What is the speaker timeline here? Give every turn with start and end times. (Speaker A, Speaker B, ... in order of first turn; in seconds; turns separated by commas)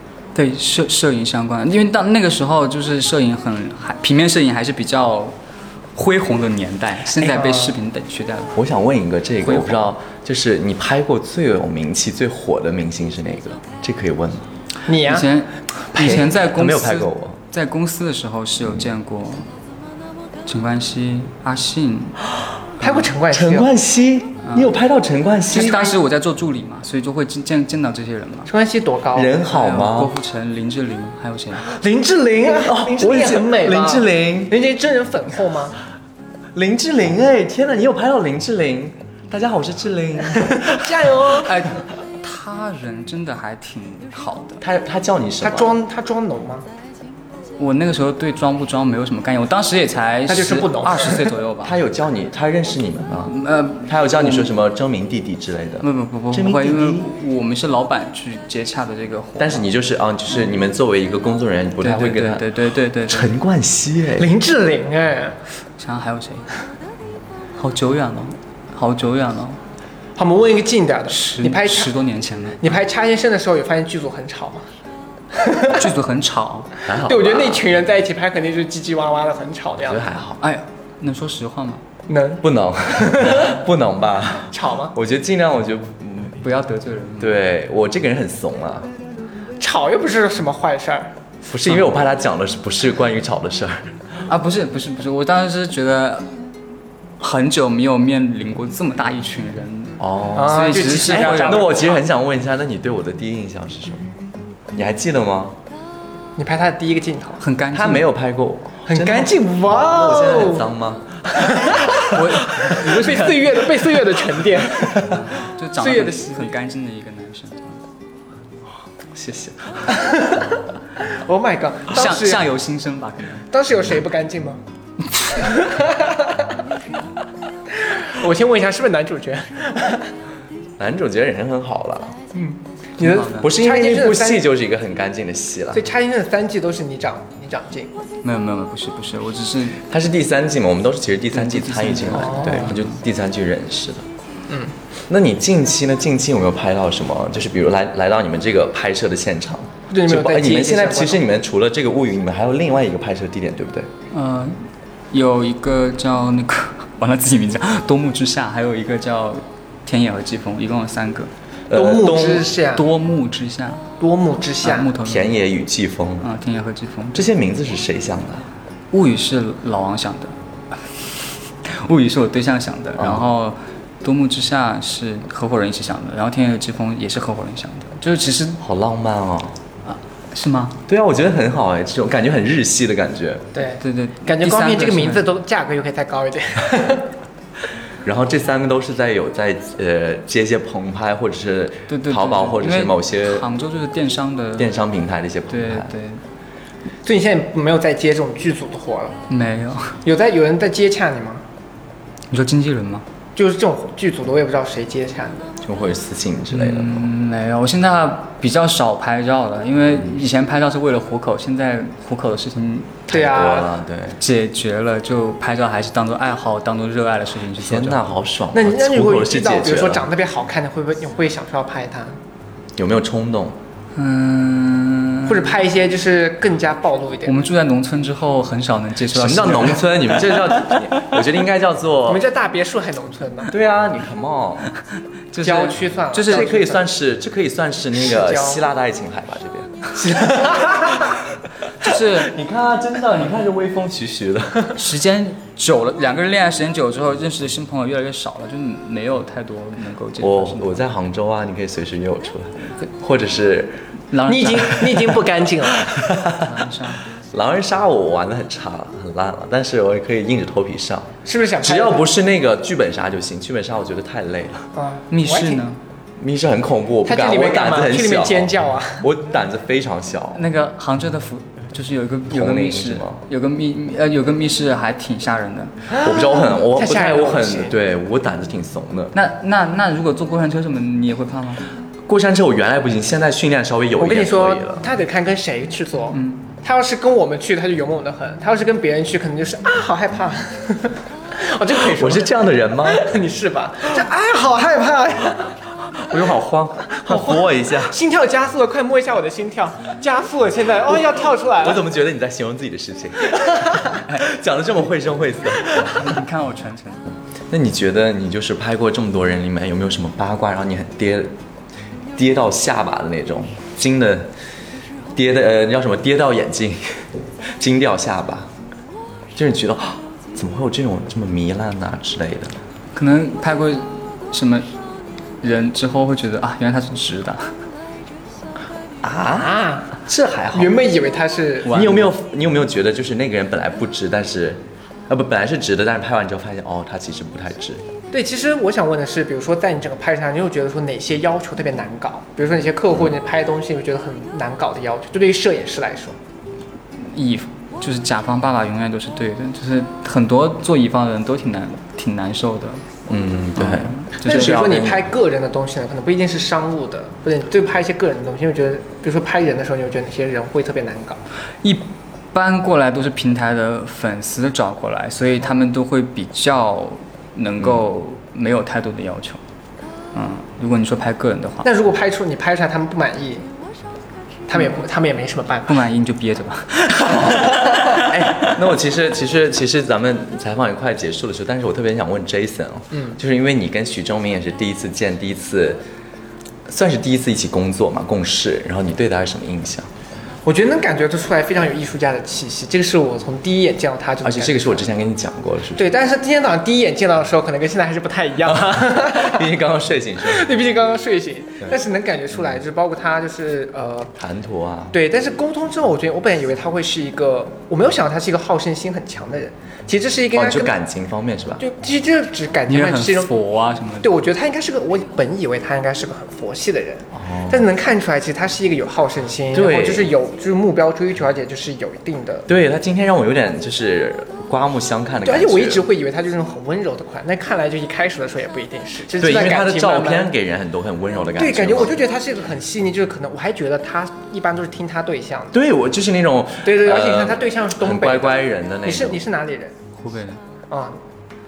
Speaker A: 0.3-5.3, Speaker A: 5.9-8.6, Speaker B: 7.2-7.8, Speaker C: 8.6-14.5, Speaker A: 9.4-9.8, Speaker B: 14.9-15.3, Speaker A: 14.9-19.5, Speaker C: 16.0-17.4, Speaker A: 20.4-22.2, Speaker B: 22.8-23.7, Speaker C: 23.3-25.9, Speaker A: 24.4-24.7, Speaker A: 25.5-28.5, Speaker B: 25.5-25.9, Speaker B: 28.5-29.3, Speaker C: 29.1-30.1, Speaker A: 29.4-31.7, Speaker B: 31.7-35.8, Speaker C: 32.6-34.5, Speaker C: 36.5-40.9, Speaker B: 40.3-41.6, Speaker A: 41.4-44.6, Speaker C: 44.6-45.7, Speaker B: 45.4-46.6, Speaker A: 47.6-51.8, Speaker B: 50.3-51.3, Speaker C: 51.6-57.1, Speaker A: 53.3-54.5, Speaker A: 55.8-59.7, Speaker C: 59.4-62.5, Speaker A: 61.8-63.3, Speaker C: 63.1-64.3, Speaker B: 64.2-65.4, Speaker A: 65.8-66.6, Speaker A: 67.6-69.6, Speaker B: 70.2-71.9, Speaker A: 71.1-72.6, Speaker B: 72.6-74.7, Speaker B: 75.3-75.9, Speaker A: 75.7-76.7, Speaker C: 76.8-77.6, Speaker B: 77.0-80.0, Speaker C: 79.8-80.4, Speaker A: 80.4-81.8, Speaker B: 82.1-83.6, Speaker C: 82.4-86.4, Speaker B: 84.5-84.9, Speaker A: 86.4-87.4, Speaker C: 87.2-88.9, Speaker B: 89.6-91.1, Speaker C: 91.4-93.9, Speaker A: 94.3-96.3, Speaker A: 97.2-101.7, Speaker C: 100.0-104.1, Speaker B: 100.3-102.0, Speaker C: 104.7-105.6, Speaker B: 106.4-107.4, Speaker A: 107.4-108.0, Speaker C: 107.7-111.6, Speaker B: 108.9-110.7, Speaker B: 111.3-115.1, Speaker A: 112.0-113.9, Speaker A: 115.1-117.8, Speaker B: 115.8-116.5, Speaker C: 119.1-120.0, Speaker B: 119.9-122.5, Speaker A: 121.9-123.5, Speaker B: 123.5-124.6, Speaker B: 125.3-126.6, Speaker B: 127.7-130.1, Speaker C: 130.8-132.2, Speaker B: 132.3-134.5, Speaker A: 133.0-133.5, Speaker C: 133.3-135.8, Speaker B: 135.7-138.0, Speaker A: 138.2-139.8, Speaker C: 139.8-144.1, Speaker A: 141.3-143.0, Speaker B: 142.2-142.7, Speaker C: 145.1-153.9, Speaker B: 149.9-151.2, Speaker A: 154.1-154.6, Speaker A: 155.1-161.3, Speaker C: 161.7-162.5, Speaker B: 161.7-162.9, Speaker A: 162.7-163.8, Speaker B: 164.0-164.9, Speaker A: 164.6-165.3, Speaker C: 165.0-166.2, Speaker A: 166.2-167.3, Speaker C: 167.1-168.5, Speaker A: 168.9-170.3, Speaker A: 171.6-178.6, Speaker C: 173.0-173.2, Speaker C: 178.6-179.6, Speaker A: 179.8-180.8, Speaker C: 180.9-183.4, Speaker B: 183.5-187.1, Speaker A: 183.8-185.2, Speaker C: 188.0-193.4, Speaker A: 191.9-194.7, Speaker C: 194.6-195.9, Speaker A: 195.5-196.2, Speaker B: 197.0-199.2, Speaker A: 199.3-199.9, Speaker B: 200.0-201.4, Speaker A: 202.3-203.0, Speaker B: 203.3-205.5, Speaker C: 205.6-207.1, Speaker A: 206.5-213.0, Speaker C: 213.1-214.2, Speaker B: 213.1-213.7, Speaker A: 214.2-218.0, Speaker C: 217.6-220.1, Speaker B: 218.5-222.2, Speaker C: 222.8-223.6, Speaker A: 223.9-225.6, Speaker B: 225.2-227.4, Speaker A: 227.2-230.8, Speaker C: 229.1-232.2, Speaker B: 232.1-233.5, Speaker C: 233.5-234.7, Speaker A: 235.3-236.5, Speaker B: 235.4-236.8, Speaker C: 236.3-241.2, Speaker B: 237.9-238.6, Speaker B: 240.2-240.9, Speaker A: 241.8-242.3, Speaker C: 241.8-244.8, Speaker A: 244.7-250.8, Speaker C: 250.2-253.8, Speaker A: 254.1-255.0, Speaker B: 254.2-255.8, Speaker C: 255.7-256.5, Speaker A: 256.4-257.0, Speaker C: 257.3-264.7, Speaker B: 261.2-262.1, Speaker B: 264.7-265.6, Speaker A: 265.1-265.8, Speaker C: 266.2-270.4, Speaker B: 267.0-269.0, Speaker A: 270.3-275.8, Speaker C: 272.3-273.2, Speaker B: 275.9-277.8, Speaker C: 275.9-279.1, Speaker A: 279.1-281.6, Speaker C: 282.1-284.8, Speaker B: 284.0-295.6, Speaker A: 286.1-286.4, Speaker C: 291.7-293.0, Speaker C: 296.0-297.9, Speaker B: 297.0-301.8, Speaker C: 301.6-306.0, Speaker B: 303.3-304.0, Speaker A: 305.7-307.0, Speaker C: 307.5-311.3, Speaker C: 312.1-314.3, Speaker C: 315.1-317.0, Speaker C: 317.6-318.5, Speaker C: 319.3-322.6, Speaker A: 322.9-324.7, Speaker A: 325.4-327.5, Speaker C: 329.0-330.7, Speaker B: 329.3-329.9, Speaker B: 330.5-331.8, Speaker A: 331.7-332.1, Speaker C: 331.7-337.8, Speaker B: 338.1-346.2, Speaker A: 347.1-352.8, Speaker C: 353.1-355.0, Speaker A: 353.6-354.8, Speaker B: 354.2-361.2, Speaker A: 361.6-369.4, Speaker A: 370.1-371.7, Speaker B: 371.6-373.4, Speaker B: 374.5-375.8, Speaker A: 375.7-378.3, Speaker B: 377.2-377.9, Speaker C: 377.9-385.8, Speaker B: 382.9-383.2, Speaker C: 386.7-389.9, Speaker B: 390.4-394.9, Speaker C: 394.2-395.9, Speaker B: 395.8-399.5, Speaker C: 398.4-400.5, Speaker B: 400.2-404.1, Speaker C: 404.2-404.9, Speaker B: 404.9-410.7, Speaker C: 410.3-411.6, Speaker B: 411.6-413.3, Speaker A: 412.7-414.1, Speaker B: 414.0-422.5, Speaker C: 417.1-417.6, Speaker C: 419.5-420.1, Speaker C: 422.5-425.8, Speaker B: 425.2-430.3, Speaker C: 429.2-432.0, Speaker B: 431.4-435.6, Speaker C: 435.5-439.2, Speaker B: 436.6-439.7, Speaker A: 440.0-440.4, Speaker B: 440.7-441.0